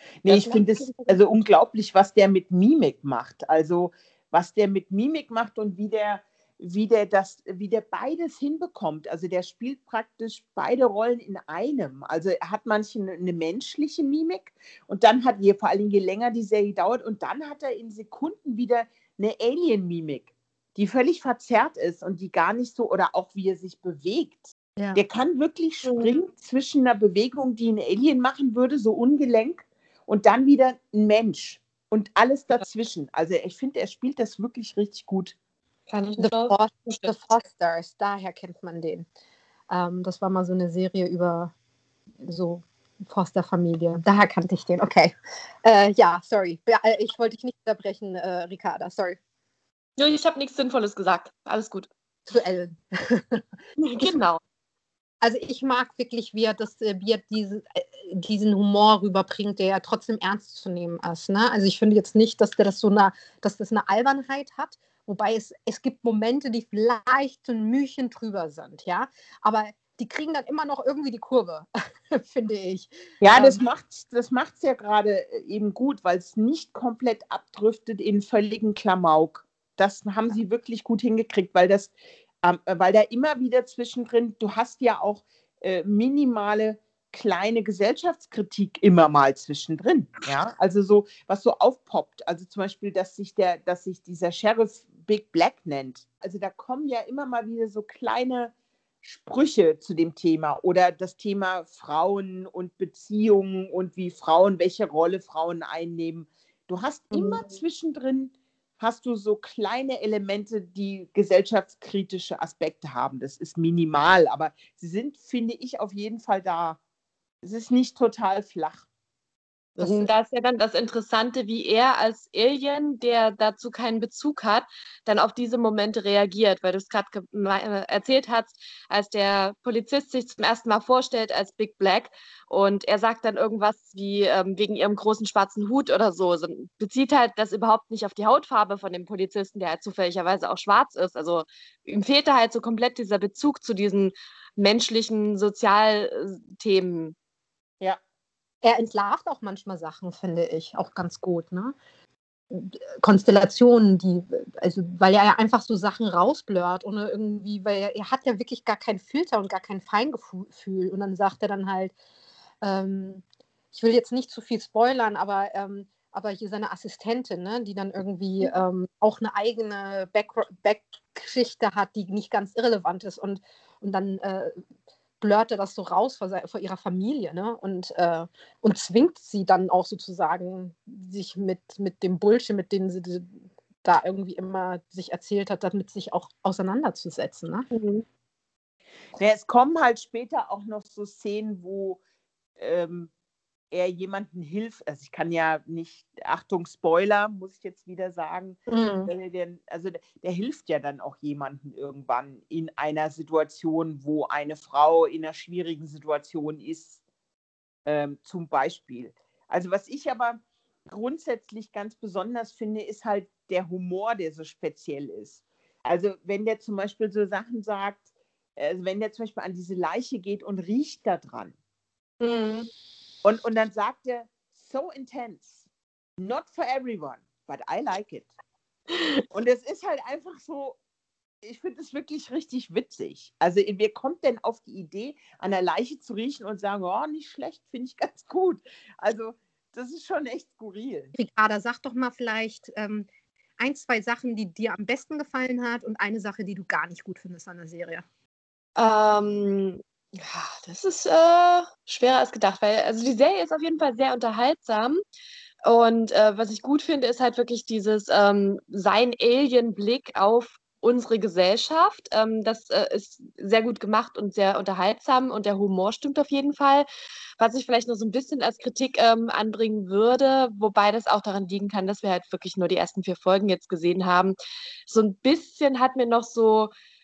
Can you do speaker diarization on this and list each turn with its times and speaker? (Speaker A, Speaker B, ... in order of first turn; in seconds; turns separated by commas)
Speaker A: 0.2-35.4, Speaker B: 0.3-0.6, Speaker C: 0.3-1.0, Speaker C: 25.8-26.2, Speaker C: 35.9-37.1, Speaker B: 36.2-39.0, Speaker B: 39.7-41.5, Speaker B: 42.2-45.1, Speaker B: 45.6-49.2, Speaker C: 50.0-51.9, Speaker B: 52.3-53.4, Speaker C: 53.8-54.4, Speaker B: 55.2-73.6, Speaker A: 73.2-116.8, Speaker A: 117.4-118.9, Speaker A: 119.8-120.1, Speaker C: 119.8-147.1, Speaker B: 148.6-151.7, Speaker B: 152.5-161.9, Speaker B: 162.6-174.5, Speaker B: 175.2-183.3, Speaker B: 183.8-187.7, Speaker C: 187.7-188.0, Speaker A: 189.2-192.0, Speaker A: 192.6-193.1, Speaker A: 193.7-207.0, Speaker B: 198.7-199.1, Speaker A: 207.8-218.0, Speaker A: 218.6-221.5, Speaker C: 222.2-222.7, Speaker A: 223.2-225.6, Speaker A: 226.2-228.3, Speaker C: 228.9-229.2, Speaker A: 229.3-230.8, Speaker A: 231.4-241.1, Speaker B: 241.1-243.1, Speaker B: 243.6-248.0, Speaker C: 248.8-255.0, Speaker C: 255.6-266.9, Speaker C: 267.4-274.3, Speaker C: 274.9-276.7